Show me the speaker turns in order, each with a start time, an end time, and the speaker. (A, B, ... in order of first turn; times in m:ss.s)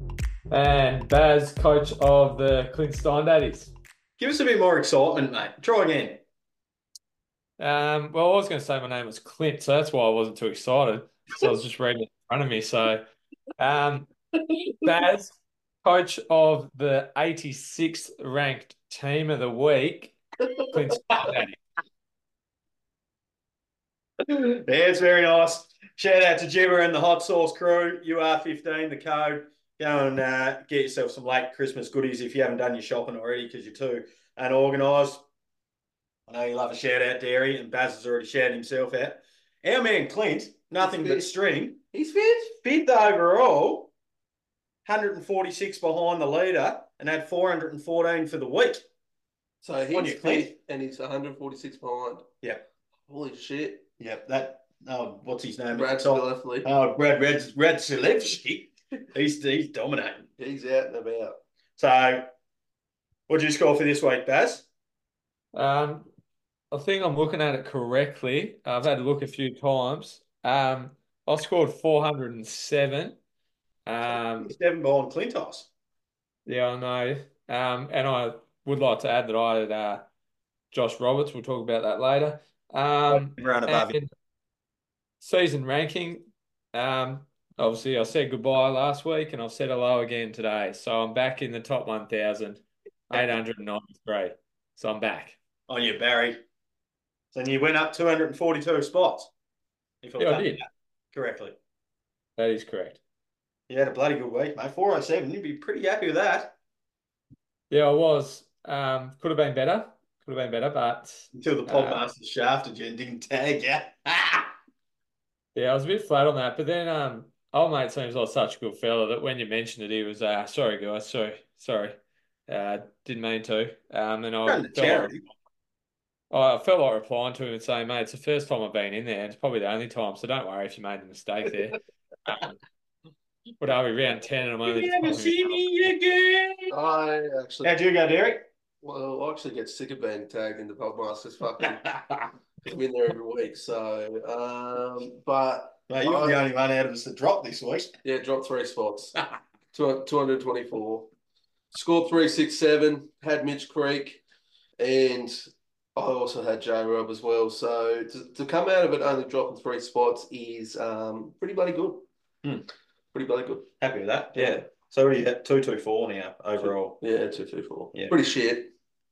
0:00.5-0:03.7 A
0:04.2-0:06.2 B
0:07.6-0:13.0 A
0:13.6-0:14.1 A
0:14.8-0:21.5 A
0:21.1-0:21.4 B
0:24.2-0:35.2 B
0:36.3-0:41.8 B
0:40.8-0:41.3 C
0:41.9-0:42.6 C
0:42.6-0:43.9 B
0:44.8-0:48.8 B
0:49.6-0:52.2 C
0:49.9-0:50.5 B
0:53.1-0:53.9 C
0:54.0-1:00.3 B
0:55.7-0:56.7 C
1:00.4-1:01.4 C
1:01.8-1:02.3 B
1:03.3-1:04.7 B
1:05.5-1:06.1 A
1:06.7-1:13.2 A
1:13.8-1:14.5 A
1:14.4-1:15.7 B
1:16.4-1:20.1 A
1:20.7-1:24.1 A
1:23.1-1:24.0 B
1:25.2-1:35.4 A
1:35.7-1:36.4 B
1:37.3-1:39.3 B
1:40.0-1:41.6 B
1:40.2-1:40.6 A
1:42.4-1:43.0 A
1:43.7-1:46.6 B
1:47.7-1:52.0 A
1:51.3-1:54.5 B
1:55.5-2:05.1 A
2:04.4-2:05.2 B
2:06.3-2:12.5 A
2:13.6-2:15.6 A
2:14.6-2:16.7 B
2:16.7-2:17.7 C
2:17.6-2:18.4 B
2:18.8-2:21.9 C
2:21.6-2:22.3 B
2:22.6-2:26.4 C
2:25.9-2:27.9 B
2:28.0-2:29.2 C
2:29.7-2:31.1 C
2:31.7-2:34.2 C
2:34.8-2:35.4 C
2:36.0-2:42.1 C
2:43.1-2:43.7 C
2:43.8-2:47.0 B
2:44.3-2:44.6 C
2:46.6-2:48.7 C